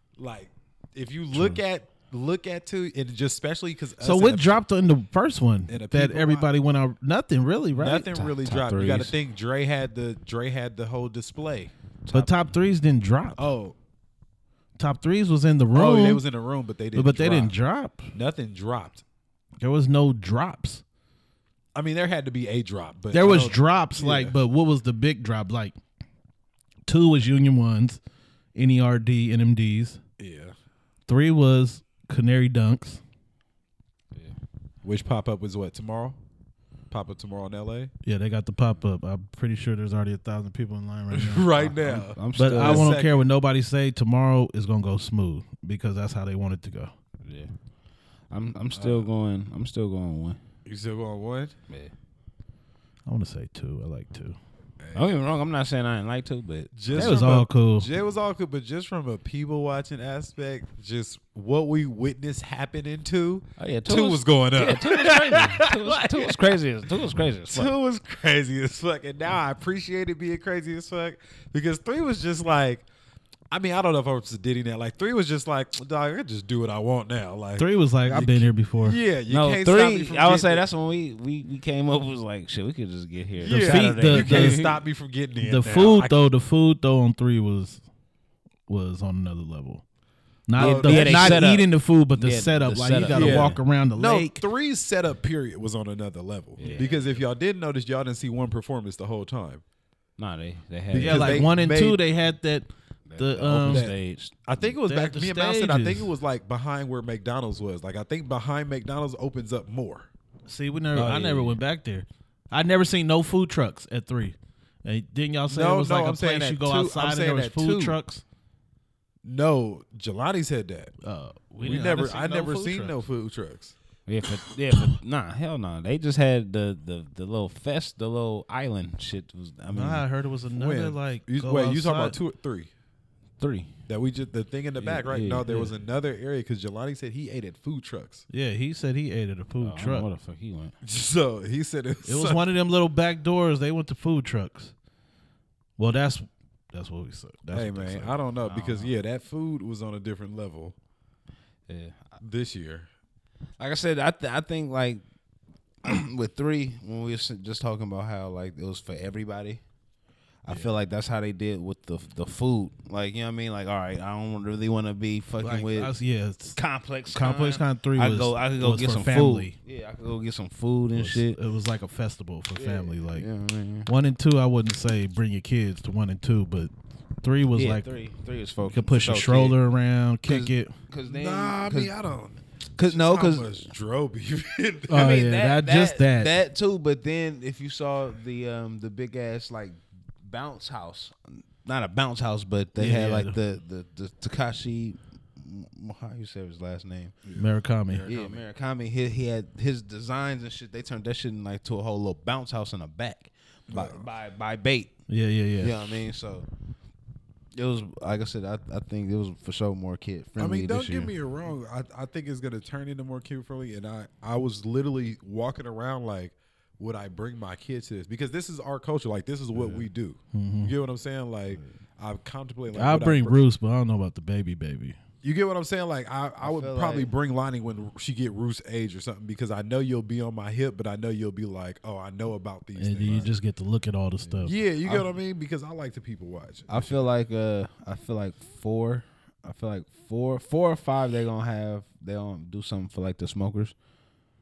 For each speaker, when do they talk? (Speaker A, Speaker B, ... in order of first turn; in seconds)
Speaker A: 0.2-4.6, 5.7-6.5, 7.7-11.7, 13.4-13.8, 15.7-17.5, 18.1-19.0, 21.7-24.4, 30.2-30.5, 34.8-36.2, 36.9-37.9, 41.1-43.2, 48.7-49.1, 50.6-51.5, 54.8-55.1, 56.7-66.6, 67.5-72.9, 73.5-80.7, 83.4-86.2, 90.6-91.5, 93.1-99.6, 100.9-102.0, 103.7-110.1, 110.9-111.6, 115.5-118.0, 119.2-120.9, 121.6-123.8, 130.5-132.7, 133.9-138.2, 140.8-142.4, 147.5-150.8, 152.2-152.9, 181.0-185.1, 197.2-198.4, 203.7-204.0, 210.4-223.4, 225.2-233.3, 234.4-237.1
Speaker B: 4.0-8.3, 12.1-13.5, 14.8-16.2, 16.9-18.1, 19.6-20.8, 23.1-25.7, 26.9-28.0, 28.5-30.0, 31.1-33.0, 38.0-41.7, 42.4-46.9, 53.0-54.4, 56.9-57.9, 77.6-79.0, 83.5-84.6, 85.4-87.8, 88.7-89.8, 90.5-94.4, 100.9-103.9, 104.8-106.1, 110.5-118.2, 121.0-123.0, 129.7-132.2, 138.3-140.1, 142.1-144.7, 145.8-148.1, 165.4-166.6, 167.1-169.5, 170.9-173.3, 173.8-176.7, 177.2-177.8, 178.6-180.7, 184.9-186.3, 192.8-193.3, 197.3-198.1, 205.1-206.0, 220.3-220.7, 222.7-224.9, 232.8-234.6
Speaker C: 8.3-9.1, 12.0-12.4, 41.6-42.9, 47.2-47.5, 48.3-50.4, 54.9-57.2, 63.6-67.7, 79.3-84.8, 90.6-93.6, 96.6-97.1, 100.2-101.5, 103.1-104.4, 124.1-130.0, 133.4-133.7, 134.8-135.6, 139.6-140.8, 148.4-148.9, 151.7-152.2, 153.6-155.0, 155.8-159.6, 160.4-165.9, 166.5-171.4, 172.5-173.9, 177.5-179.6, 180.2-181.9, 182.8-183.5, 184.9-197.2, 198.0-204.9, 205.6-206.5, 207.5-211.1, 219.5-219.8, 226.4-227.1, 236.7-243.7